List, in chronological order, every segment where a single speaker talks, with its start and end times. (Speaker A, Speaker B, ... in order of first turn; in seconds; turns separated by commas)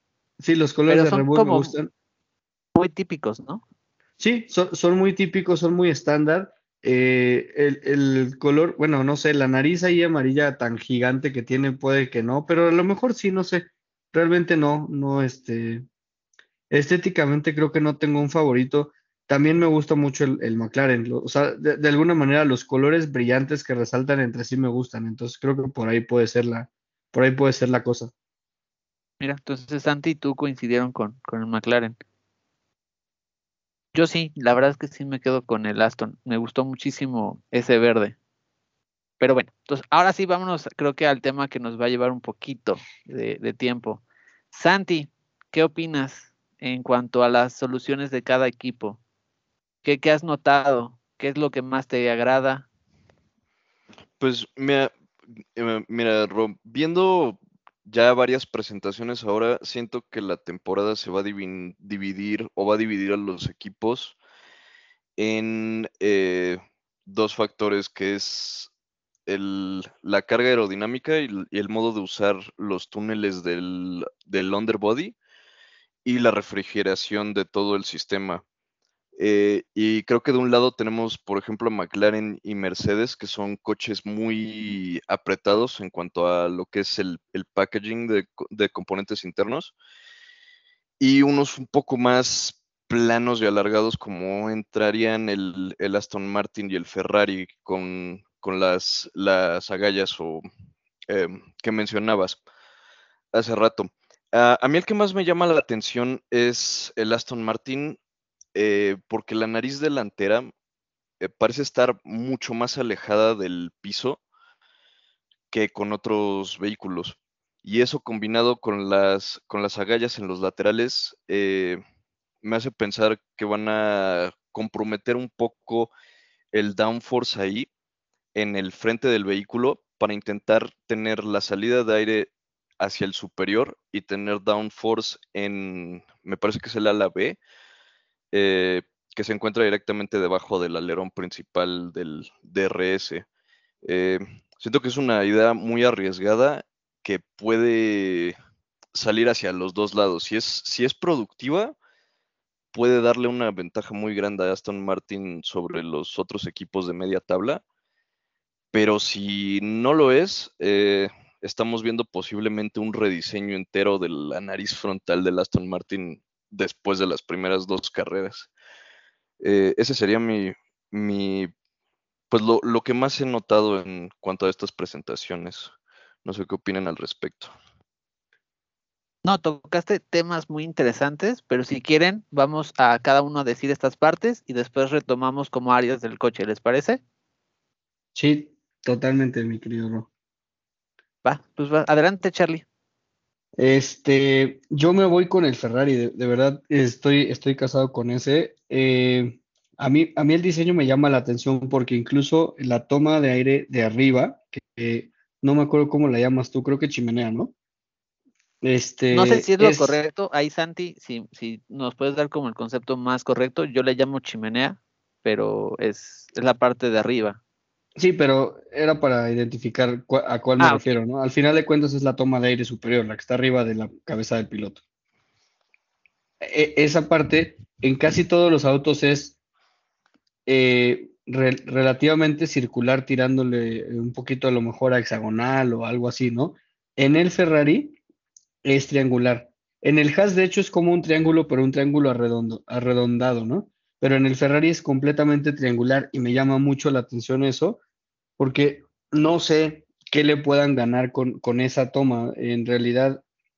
Speaker A: 0.4-1.9, Speaker B: 0.9-1.7, Speaker B: 2.8-3.6, Speaker A: 4.2-15.8, Speaker A: 16.7-28.1, Speaker B: 29.2-32.0, Speaker B: 33.9-38.1, Speaker B: 39.2-49.0, Speaker B: 49.8-52.7, Speaker C: 54.2-54.9, Speaker C: 55.5-64.2, Speaker C: 65.2-68.7, Speaker C: 69.3-75.2, Speaker C: 76.0-78.4, Speaker C: 79.2-89.7, Speaker C: 91.0-100.5, Speaker C: 101.1-102.4, Speaker C: 103.3-108.0, Speaker C: 108.5-110.5, Speaker C: 111.2-114.2, Speaker C: 115.5-121.8, Speaker C: 122.4-125.9, Speaker C: 126.5-127.7, Speaker C: 128.3-137.4, Speaker C: 138.3-143.2, Speaker C: 143.8-148.4, Speaker C: 148.9-151.8, Speaker C: 152.7-157.6, Speaker C: 158.7-168.5, Speaker C: 169.4-171.5, Speaker C: 172.3-175.7, Speaker C: 176.2-177.5, Speaker B: 179.2-187.0, Speaker A: 188.1-190.1, Speaker B: 191.2-192.6, Speaker A: 193.6-207.5, Speaker A: 208.6-210.0, Speaker B: 209.1-217.4, Speaker A: 218.0-224.8, Speaker B: 220.6-220.8, Speaker A: 226.4-229.3, Speaker A: 230.4-237.9, Speaker A: 238.6-247.8, Speaker A: 248.4-253.2